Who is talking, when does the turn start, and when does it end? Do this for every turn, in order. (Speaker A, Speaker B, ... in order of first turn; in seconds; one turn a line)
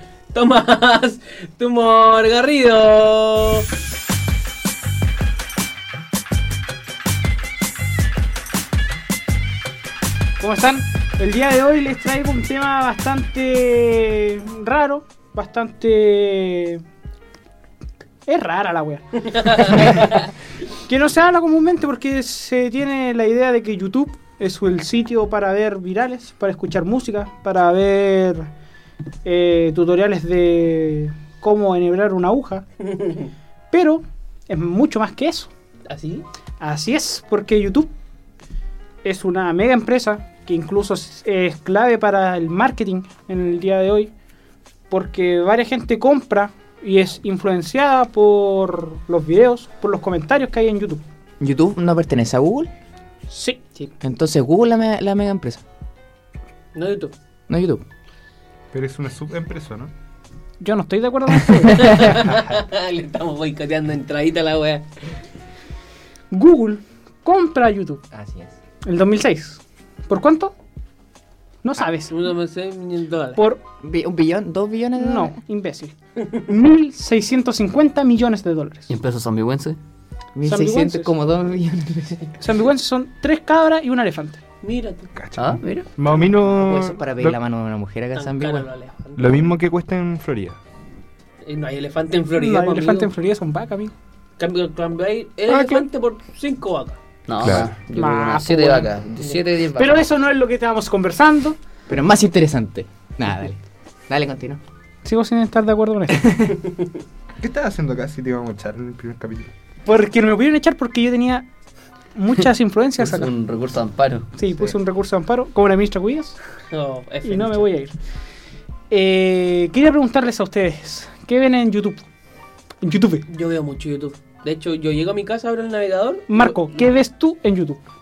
Speaker A: 0.3-3.7
Speaker B: 10.4-16.8
Speaker B: 18.3-28.5
Speaker A: 19.2-20.3
Speaker B: 29.2-32.6
Speaker A: 32.8-33.3
Speaker B: 33.7-35.5
Speaker A: 35.9-36.3
Speaker B: 36.6-37.9
Speaker B: 39.0-44.1
Speaker B: 44.9-51.0
Speaker C: 51.4-52.7
Speaker B: 53.3-53.7
Speaker C: 54.0-55.6
Speaker A: 56.8-57.1
Speaker C: 57.5-57.8
Speaker D: 58.7-59.9
Speaker B: 60.6-62.2
Speaker A: 61.7-64.9
Speaker B: 66.3-68.0
Speaker C: 68.1-68.5
Speaker B: 68.8-70.5
Speaker B: 71.6-72.2
Speaker A: 72.1-73.4
Speaker B: 73.4-73.6
Speaker C: 73.8-75.3
Speaker B: 75.0-75.9
Speaker B: 76.5-78.9
Speaker E: 78.9-79.8
Speaker C: 80.4-82.4
Speaker B: 80.5-81.1
Speaker B: 82.4-84.4
Speaker A: 84.6-85.1
Speaker D: 85.2-87.4
Speaker E: 85.4-85.9
Speaker C: 86.5-88.7
Speaker A: 88.2-89.5
Speaker D: 89.2-90.6
Speaker A: 91.4-93.1
Speaker B: 92.3-93.9
Speaker A: 94.4-97.0
Speaker B: 95.5-95.9
Speaker E: 97.3-100.1
Speaker D: 97.4-97.8
Speaker B: 97.9-98.9
Speaker B: 99.8-101.6
Speaker C: 101.9-104.6
Speaker B: 105.0-106.4
Speaker C: 106.1-106.5
Speaker A: 106.6-107.0
Speaker D: 107.4-109.5
Speaker B: 109.8-111.5
Speaker B: 112.2-113.3
Speaker E: 113.0-114.7
Speaker B: 114.4-116.4
Speaker A: 116.7-117.7
Speaker B: 117.2-117.9
Speaker B: 118.9-122.0
Speaker B: 122.8-123.2
Speaker A: 123.3-126.8
Speaker B: 126.3-127.8